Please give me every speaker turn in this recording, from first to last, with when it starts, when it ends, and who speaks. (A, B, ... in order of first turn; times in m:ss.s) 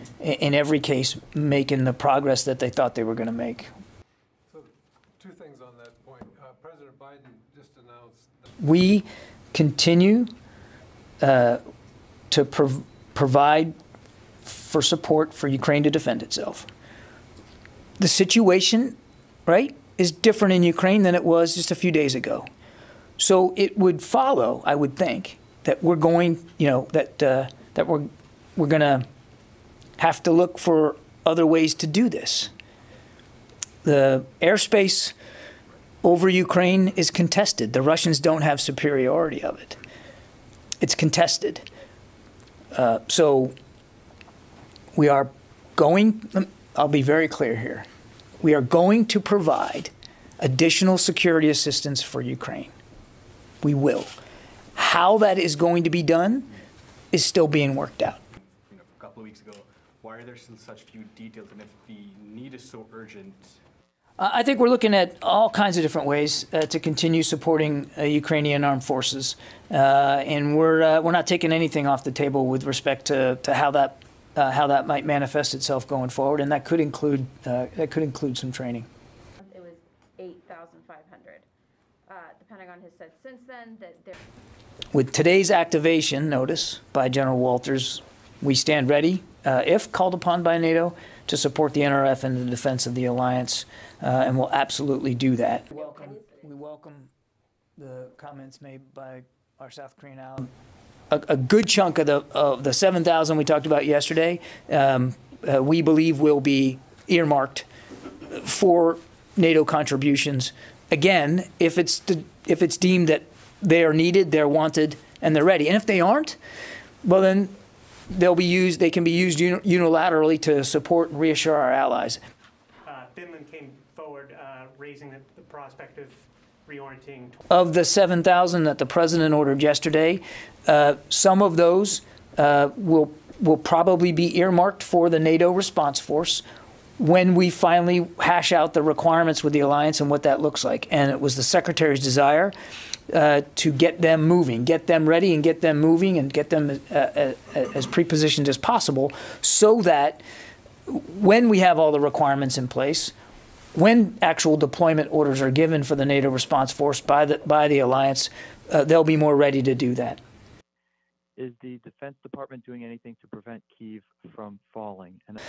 0:00.2-0:03.7 A
0:04.5-0:08.5 B
0:08.6-0:10.3 A
0:11.2-0:11.6 A
0:12.3-0:13.8 A
0:14.4-0:16.7 A
0:18.0-0:22.5 A
0:23.2-0:29.0 A
0:30.0-0:32.5 A
0:33.8-0:35.2 A
0:36.0-0:39.8 A
0:40.8-0:41.6 A
0:42.7-0:43.5 A
0:45.0-0:47.9 A
0:48.4-0:52.7 A
0:53.6-0:54.2 A
0:54.8-0:56.5 A
0:57.1-0:58.2 A
0:58.4-1:03.6 C
1:04.2-1:18.9 A
1:19.4-1:21.5 D
1:22.1-1:24.1 D
1:24.9-1:37.1 A
1:37.8-1:40.5 A
1:41.1-1:47.7 A
1:48.3-1:56.4 A
1:57.0-1:57.5 A
1:58.1-2:02.2 A
2:02.8-2:07.4 E
2:07.5-2:16.4 A
2:17.0-2:22.5 A
2:23.1-2:30.2 A
2:30.9-2:33.1 A
2:33.8-2:40.2 A
2:41.4-2:45.4 F